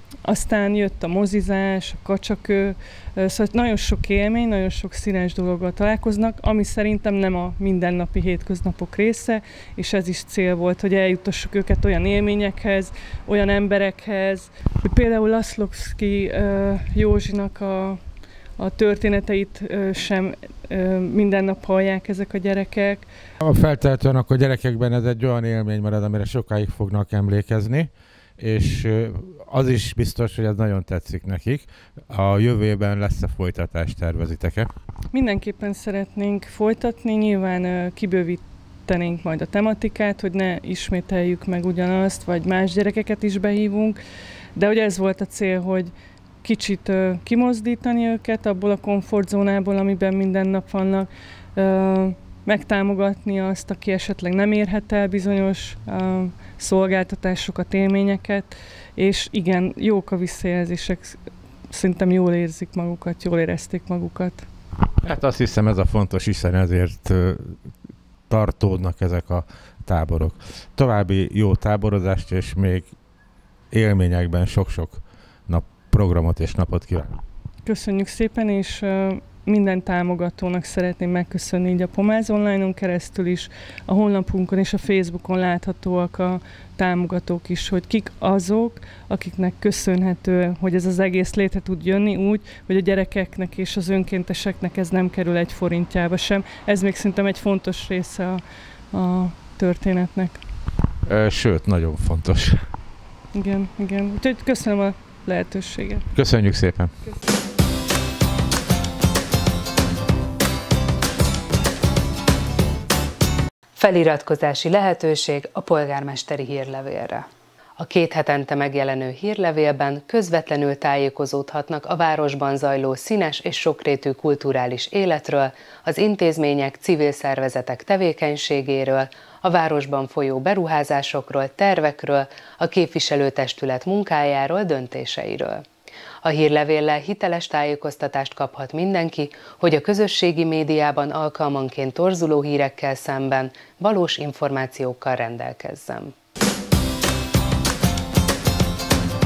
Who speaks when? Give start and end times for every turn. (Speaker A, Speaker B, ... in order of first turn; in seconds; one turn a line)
Speaker A: 0.2-18.0
Speaker A: 18.6-23.1
Speaker B: 23.4-34.7
Speaker A: 35.1-44.0
Speaker A: 44.5-45.9
Speaker A: 46.4-61.2
Speaker A: 61.7-64.5
Speaker B: 65.0-67.6
Speaker B: 68.3-72.9
Speaker B: 73.7-77.2
Speaker A: 77.6-98.4
Speaker A: 98.9-100.4
Speaker B: 101.0-102.6
Speaker A: 103.3-106.1
Speaker B: 106.2-106.9
Speaker C: 113.8-117.2
Speaker C: 117.8-135.6
Speaker C: 136.2-146.1